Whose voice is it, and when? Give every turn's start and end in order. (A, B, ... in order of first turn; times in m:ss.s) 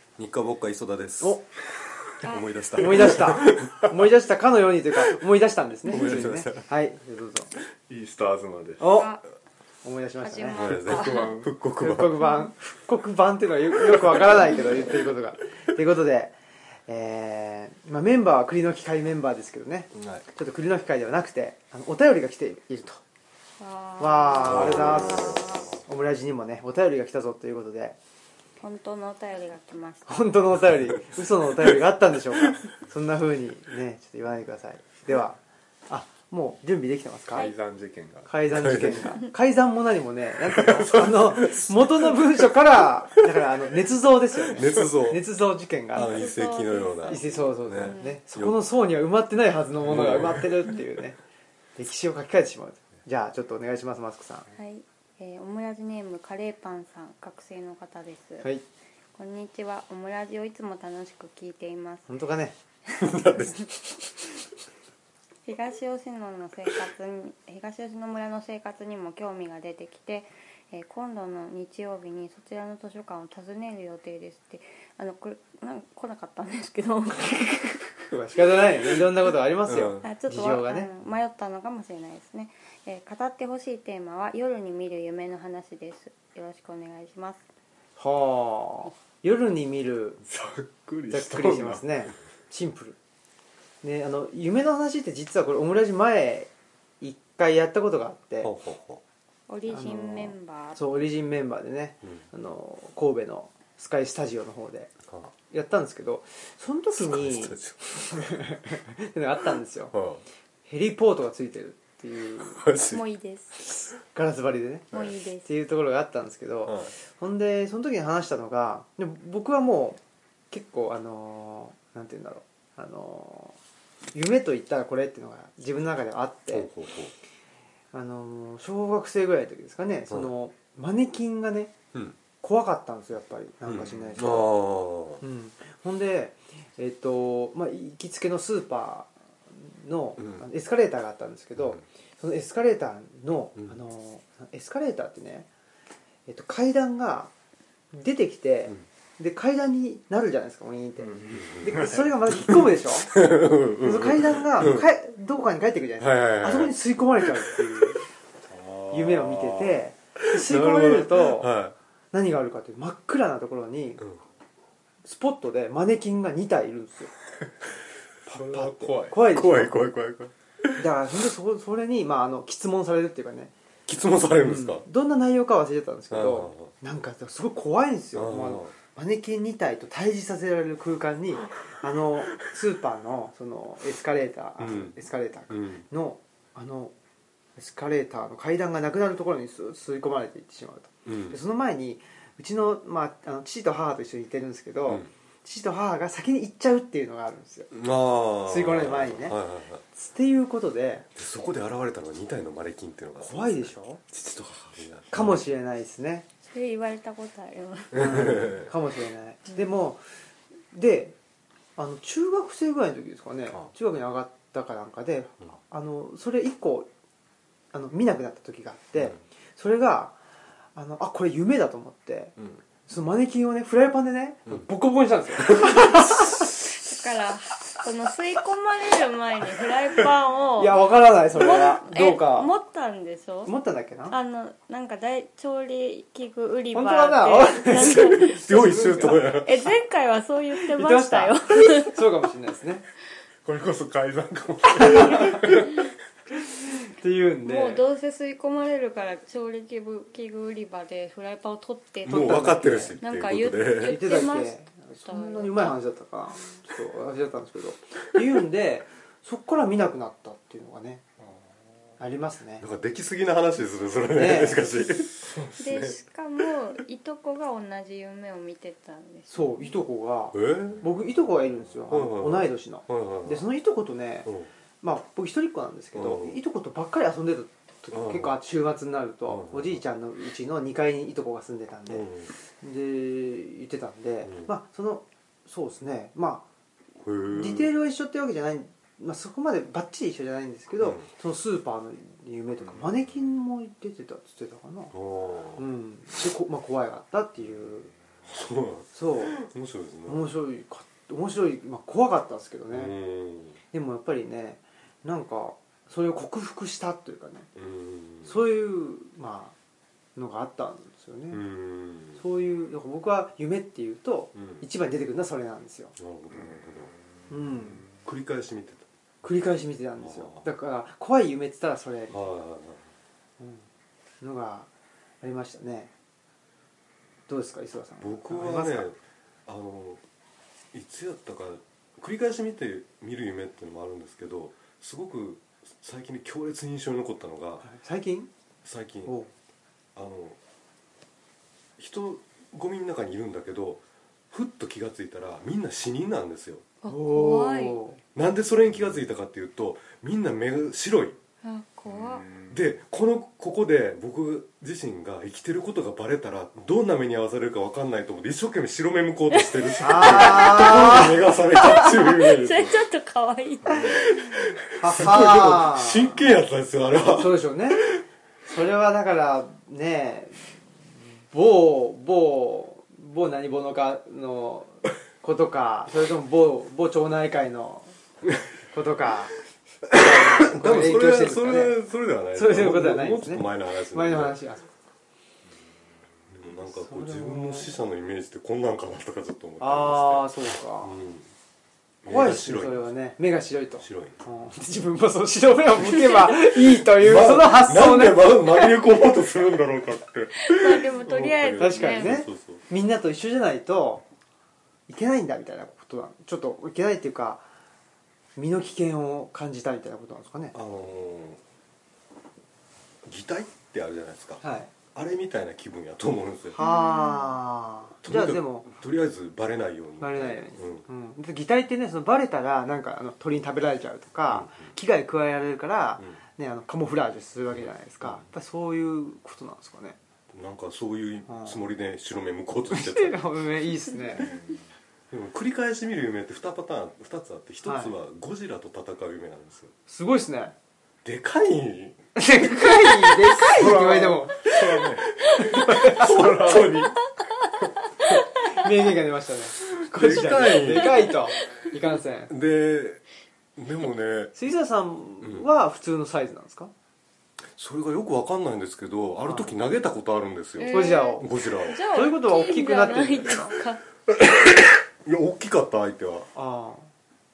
0:00.2-0:01.4 A
0:02.2-0:03.9 A
0:02.2-0:02.6 B
0:02.8-0:07.5 C
0:05.8-0:06.6 A
0:07.9-0:08.9 D
0:08.8-0:09.2 C
0:08.9-0:09.2 B
0:09.8-0:10.7 C
0:10.2-0:11.3 B
0:10.5-0:12.2 A
0:10.6-0:11.5 D
0:11.8-0:16.4 C
0:16.9-0:23.0 C
0:19.9-0:20.2 A
0:23.6-0:25.8 B
0:24.0-0:28.0 C
0:24.4-0:25.5 A
0:28.6-0:30.4 B
0:30.1-0:37.5 C
0:37.3-0:38.3 D
0:38.3-0:46.3 C
0:38.5-0:39.1 A
0:40.5-0:42.2 A
0:44.4-0:45.2 A
0:45.9-0:48.6 A
0:45.9-0:48.2 B
0:47.0-0:51.2 C
0:49.8-0:50.7 A
0:51.8-0:54.5 C
0:54.5-0:58.5 B
0:59.1-1:02.1 B
1:02.1-1:02.6 C
1:03.0-1:04.0 A
1:05.4-1:17.8 B
1:18.1-1:20.9 C
1:19.7-1:20.0 A
1:20.0-1:27.4 B
1:28.0-1:30.2 C
1:30.2-1:31.8 D
1:31.1-1:33.0 C
1:33.8-1:38.5 C
1:38.4-1:39.0 A
1:39.5-1:40.8 B
1:39.7-1:44.9 C
1:45.5-1:50.0 C
1:47.0-1:48.4 A
1:49.9-1:50.2 A
1:50.6-1:52.6 C
1:52.6-1:53.0 A
1:52.8-1:53.6 B
1:54.0-2:00.0 C
1:54.9-1:55.5 B
1:56.6-1:56.9 A
2:00.5-2:03.6 C
2:04.1-2:06.7 C
2:06.5-2:07.1 A
2:07.9-2:11.7 C
2:12.4-2:14.6 C
2:13.7-2:15.2 A
2:15.2-2:25.5 C
2:20.2-2:20.4 A
2:21.6-2:21.8 A
2:26.3-2:27.3 C
2:27.9-2:33.1 C
2:31.0-2:32.1 D
2:31.3-2:31.9 A
2:33.0-2:34.9 A
2:33.8-2:38.0 C
2:36.0-2:37.5 A
2:38.5-2:39.8 D
2:38.9-2:41.5 C
2:40.3-2:41.7 A
2:42.1-2:44.0 C
2:45.0-2:47.1 C
2:48.2-2:49.8 C
2:48.3-2:49.2 D
2:49.2-2:50.8 A
2:50.8-2:53.5 C
2:53.9-2:54.8 A
2:54.4-3:06.9 C
2:56.1-2:56.7 A
2:58.1-2:58.7 A
3:04.6-3:05.0 A
3:05.5-3:05.8 A
3:07.6-3:17.7 C
3:11.0-3:11.4 A
3:17.7-3:19.8 A
3:18.4-3:19.4 C
3:19.9-3:21.1 C
3:21.1-3:25.4 A
3:23.2-3:24.0 C
3:25.1-3:26.3 C
3:26.4-3:28.2 B
3:27.9-3:28.7 A
3:27.9-3:30.0 C
3:30.7-3:31.2 C
3:31.8-3:36.9 C
3:37.7-3:40.2 C
3:40.7-3:42.3 C
3:42.8-3:46.4 C
3:45.5-3:46.0 A
3:45.9-3:53.5 B
3:50.6-3:52.5 C
3:53.4-3:54.2 C
3:54.1-3:58.4 B
3:56.7-3:59.4 C
3:57.8-3:59.6 A
3:59.1-4:02.0 B
4:00.6-4:02.8 C
4:03.4-4:05.8 D
4:04.8-4:05.6 C
4:06.7-4:07.8 C
4:07.4-4:15.7 B
4:12.1-4:14.2 A
4:12.1-4:12.9 C
4:13.8-4:21.0 C
4:22.0-4:22.6 C
4:22.6-4:26.0 A
4:24.1-4:24.6 C
4:25.6-4:29.7 B
4:29.3-4:34.3 C
4:30.3-4:30.9 A
4:31.9-4:33.5 A
4:34.8-4:46.4 C
4:35.9-4:36.4 A
4:37.9-4:38.3 A
4:39.3-4:39.8 A
4:41.9-4:42.3 A
4:44.2-4:44.5 A
4:47.0-4:47.7 A
4:47.3-4:54.9 C
4:50.8-4:51.1 A
4:54.9-4:55.6 A
4:55.6-4:57.9 C
4:58.3-5:00.3 A
4:58.9-4:59.4 C
5:00.1-5:02.9 C
5:02.7-5:03.6 A
5:03.7-5:07.5 C
5:07.5-5:08.4 A
5:08.2-5:09.5 C
5:10.2-5:11.4 C
5:11.3-5:12.2 A
5:12.2-5:15.9 C
5:14.3-5:14.6 A
5:16.0-5:16.9 A
5:17.3-5:17.8 C
5:17.8-5:18.8 A
5:19.2-5:22.2 C
5:20.0-5:20.5 A
5:22.1-5:22.9 A
5:23.4-5:23.6 C
5:24.2-5:24.7 C
5:25.2-5:25.9 C
5:27.3-5:28.9 C
5:28.0-5:30.0 A
5:30.7-5:37.7 A
5:37.6-5:38.3 C
5:38.6-5:39.1 A
5:39.0-5:39.3 C
5:39.9-5:40.4 A
5:41.8-5:46.6 A
5:46.8-5:47.8 B
5:46.9-5:48.0 C
5:48.1-5:51.2 A
5:51.4-5:52.3 B
5:51.9-5:52.6 D
5:52.5-6:02.8 A
5:59.5-6:01.0 B
5:59.8-6:01.2 C
6:01.7-6:04.2 B
6:03.7-6:08.0 A
6:04.8-6:06.2 C
6:07.0-6:07.8 C
6:08.4-6:10.6 C
6:11.3-6:18.0 C
6:18.7-6:19.4 C
6:19.8-6:24.4 A
6:19.9-6:21.8 C
6:22.3-6:24.7 C
6:26.3-6:31.3 A
6:26.6-6:27.7 C
6:29.6-6:31.0 C
6:32.0-6:32.9 A
6:32.0-6:38.8 C
6:33.8-6:34.2 A
6:35.9-6:36.4 B
6:37.0-6:42.6 A
6:40.4-6:42.2 B
6:41.6-6:44.0 C
6:44.9-6:47.4 C
6:48.4-6:50.6 C
6:50.5-6:51.4 A
6:53.0-6:56.6 A
6:54.4-6:54.7 C
6:56.6-6:57.4 B
6:56.6-6:58.7 C
6:58.0-7:00.8 A
7:00.0-7:10.0 C
7:04.3-7:04.7 A
7:08.0-7:08.3 A
7:10.3-7:13.2 A
7:11.3-7:11.6 C
7:12.7-7:14.3 C
7:14.2-7:14.7 D
7:15.1-7:19.7 A
7:17.6-7:17.9 C
7:19.9-7:20.5 C
7:21.0-7:22.1 A
7:22.2-7:24.6 C
7:23.5-7:27.0 D
7:23.6-7:23.8 A
7:25.2-7:27.0 A
7:25.3-7:26.6 C
7:28.5-7:32.3 C
7:29.8-7:31.1 A
7:32.3-7:33.0 A
7:33.6-7:34.3 A
7:34.3-7:36.7 C
7:35.2-7:35.5 A
7:37.5-7:41.8 A
7:39.2-7:39.5 C
7:40.6-7:43.8 B
7:40.7-7:41.2 C
7:41.9-7:43.5 C
7:44.1-7:46.3 A
7:46.3-7:46.9 C